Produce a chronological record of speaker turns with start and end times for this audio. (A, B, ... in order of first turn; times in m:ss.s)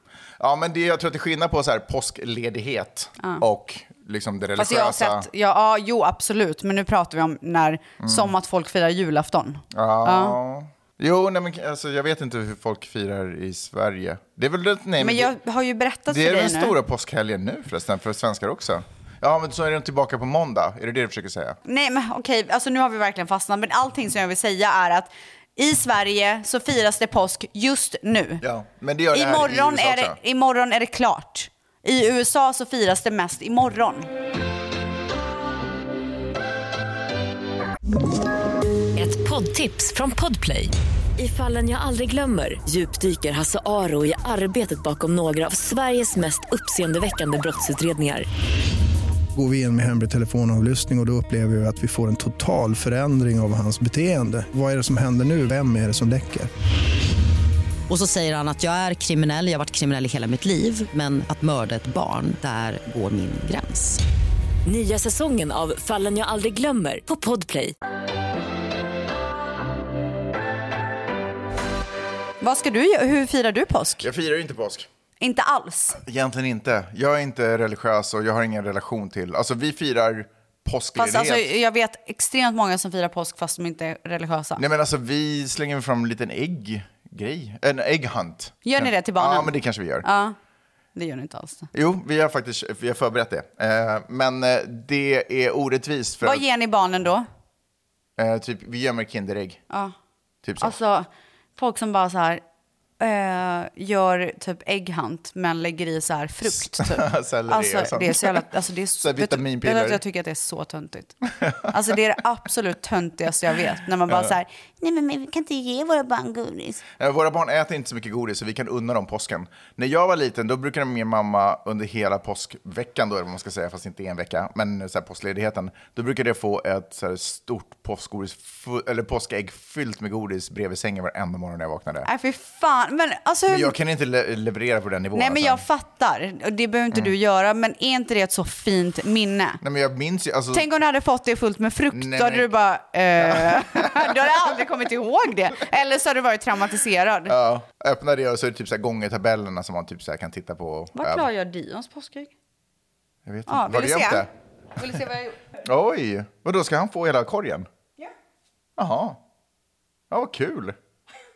0:00.4-0:05.3 A
0:04.6-0:10.4 B
0:08.0-0:08.3 A
0:09.7-0:15.3 A
0:15.0-0:16.7 B
0:16.1-0:21.6 A
0:21.6-0:28.4 B
0:28.4-0:30.2 A
0:29.1-0:34.1 B
0:38.9-0:48.3 C
0:49.3-0:56.5 D
0:57.9-1:04.0 E
1:04.6-1:07.7 C
1:12.4-1:14.1 B
1:14.0-1:14.9 A
1:15.2-1:16.0 B
1:16.0-1:21.5 A
1:21.0-1:24.6 B
1:24.6-1:30.0 A
1:28.6-1:30.4 B
1:30.9-1:31.7 B
1:31.7-1:36.4 A
1:36.2-1:37.2 B
1:38.2-1:39.6 A
1:40.4-1:40.8 A
1:40.6-1:42.4 B
1:43.0-1:56.8 B
1:46.5-1:48.5 A
1:49.0-1:50.0 A
1:51.4-1:51.9 A
1:57.0-2:12.1 A
2:12.0-2:13.7 B
2:13.5-2:15.6 A
2:15.1-2:19.6 B
2:19.6-2:20.7 A
2:20.5-2:27.4 B
2:21.9-2:22.5 A
2:23.2-2:24.5 A
2:27.3-2:31.3 A
2:30.9-2:32.3 B
2:33.2-2:34.3 A
2:33.5-2:34.2 B
2:34.8-2:35.4 B
2:35.6-2:37.7 A
2:38.8-2:39.2 A
2:40.1-2:40.8 A